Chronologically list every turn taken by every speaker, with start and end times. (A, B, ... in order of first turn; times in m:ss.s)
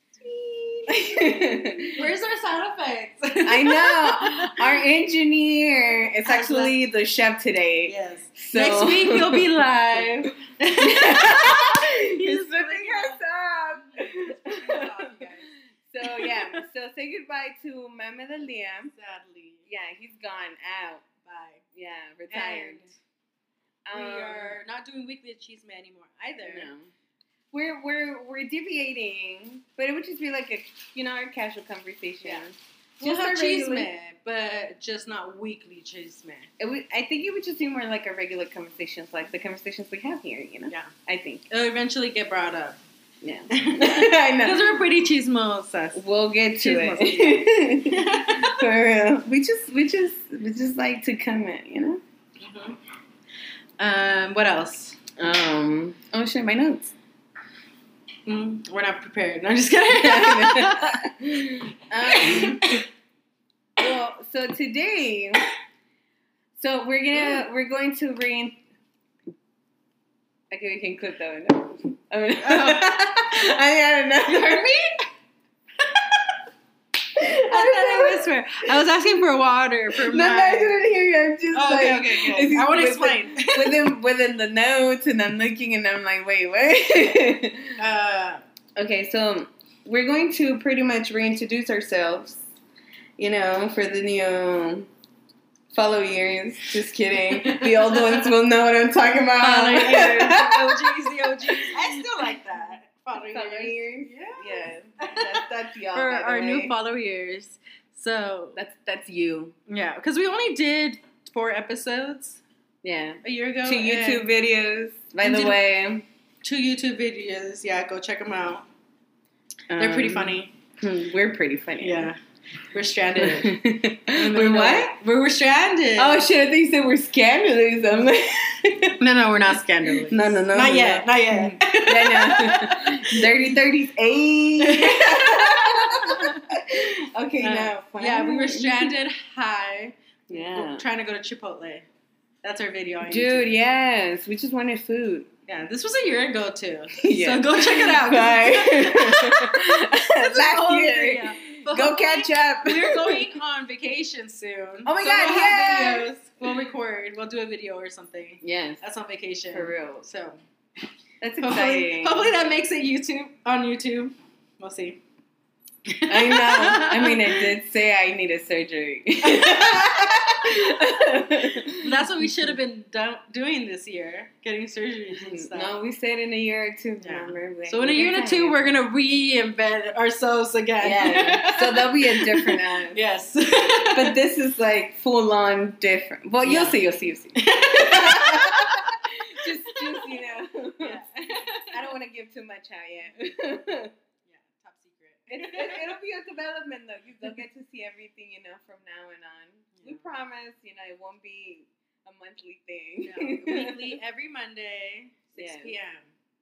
0:00.2-0:04.8 A
0:00.9-0:02.1 B
0:03.5-0:10.1 B
0:06.2-0:06.8 A
0:07.8-0:13.2 A
0:10.8-0:15.2 B
0:13.8-0:16.6 A
0:15.9-0:18.9 B
0:18.9-0:19.7 A
0:19.7-0:21.1 B
0:21.2-0:21.6 A
0:21.7-0:22.9 B
0:22.3-0:23.0 A
0:23.9-0:24.6 B
0:23.9-0:26.7 A
0:26.4-0:26.9 B
0:27.5-0:33.9 B
0:33.0-0:36.5 A
0:36.6-0:41.5 B
0:41.5-0:42.8 A
0:43.2-0:44.8 B
0:43.5-0:46.1 A
0:45.9-0:52.0 B
0:46.6-0:48.6 A
0:52.4-0:52.8 A
0:53.8-0:55.0 A
0:55.2-0:56.9 B
0:58.3-1:01.0 A
0:59.9-1:02.8 B
1:02.1-1:02.8 A
1:03.8-1:05.5 B
1:06.6-1:08.6 B
1:10.5-1:14.8 B
1:12.4-1:13.0 A
1:14.2-1:15.0 A
1:17.2-1:18.3 B
1:17.2-1:20.8 A
1:20.0-1:27.8 B
1:21.5-1:23.9 A
1:27.8-1:28.4 A
1:28.8-1:32.4 B
1:33.2-1:34.9 B
1:35.7-1:42.3 B
1:37.4-1:38.3 A
1:39.4-1:48.6 A
1:43.3-1:46.7 B
1:48.6-1:49.6 B
1:49.7-1:52.4 A
1:52.8-1:56.0 B
1:53.2-1:54.3 A
1:55.2-1:55.6 A
1:56.4-1:58.6 A
1:59.7-2:02.1 B
1:59.8-2:00.5 A
2:01.8-2:02.2 A
2:02.7-2:06.3 A
2:03.2-2:05.0 B
2:06.0-2:09.0 B
2:09.0-2:13.3 A
2:10.0-2:18.9 B
2:14.6-2:16.5 A
2:17.4-2:21.9 A
2:20.3-2:20.8 B
2:22.4-2:23.5 A
2:23.0-2:25.3 B
2:25.5-2:40.4 A
2:27.0-2:33.3 B
2:34.8-2:36.1 B
2:38.4-2:38.8 B
2:39.5-2:40.0 B
2:41.2-2:42.3 B
2:41.4-2:45.0 A
2:45.9-2:47.5 A
2:46.1-2:52.5 B
2:49.4-2:50.4 A
2:51.8-2:55.7 A
2:55.1-2:58.6 B
2:57.0-3:04.2 A
3:00.8-3:03.0 B
3:04.0-3:13.9 B
3:06.4-3:06.8 A
3:07.4-3:09.0 A
3:09.7-3:10.1 A
3:10.8-3:11.8 A
3:14.3-3:15.9 A
3:15.3-3:24.0 B
3:19.8-3:20.1 A
3:23.0-3:26.1 A
3:25.3-3:25.8 B